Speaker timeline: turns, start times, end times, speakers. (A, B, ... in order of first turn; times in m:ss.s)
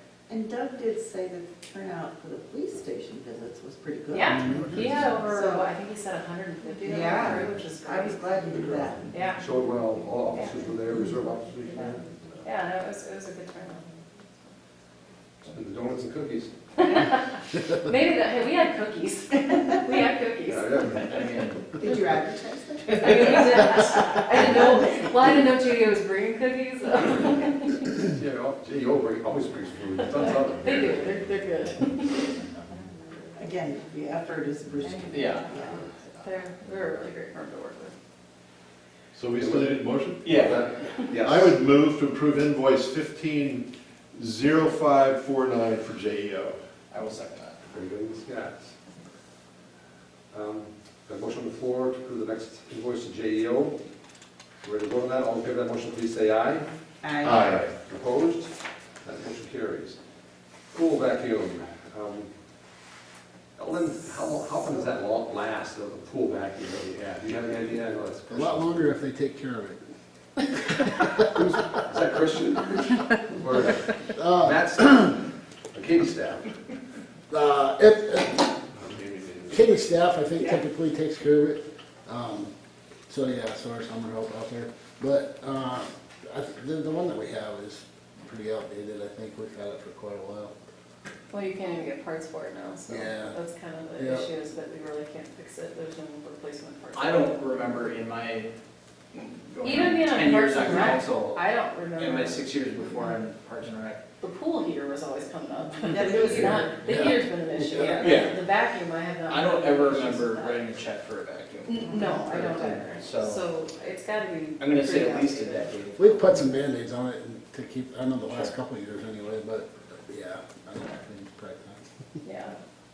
0:00.3-0:04.6 A
0:04.1-0:08.3 B
0:05.2-0:05.7 A
0:06.8-0:09.1 A
0:08.5-0:12.0 C
0:09.1-0:09.4 B
0:12.4-0:13.9 B
0:15.4-0:16.5 C
0:16.8-0:21.2 B
0:20.4-0:21.2 C
0:21.1-0:21.6 D
0:21.8-0:24.7 A
0:22.9-0:27.9 B
0:28.0-0:31.2 C
0:30.1-0:32.4 B
0:33.4-0:35.8 A
0:35.1-0:35.5 D
0:36.2-0:37.9 B
0:39.1-0:46.6 E
0:39.4-0:41.6 C
0:40.2-0:41.0 D
0:46.9-0:47.6 D
0:47.7-0:48.7 C
0:50.3-0:53.8 C
0:54.6-0:56.7 C
0:57.0-0:57.6 A
0:57.2-0:57.7 E
0:57.6-1:00.0 C
1:00.7-1:02.3 C
1:03.6-1:09.0 C
1:08.3-1:09.8 F
1:10.6-1:11.5 F
1:11.4-1:16.5 C
1:14.1-1:15.0 F
1:17.3-1:18.6 F
1:18.7-1:19.8 E
1:19.5-1:22.5 F
1:23.1-1:30.5 F
1:31.3-1:37.5 B
1:32.9-1:33.4 F
1:34.0-1:34.3 F
1:36.9-1:38.5 D
1:39.1-1:44.0 D
1:39.6-1:42.4 B
1:44.2-1:50.6 B
1:45.7-1:46.9 A
1:46.3-1:47.3 F
1:47.8-1:48.1 A
1:48.0-1:48.4 D
1:49.2-1:53.5 D
1:51.6-1:55.8 B
1:54.6-1:56.4 D
1:56.0-2:01.8 F
2:02.2-2:02.5 B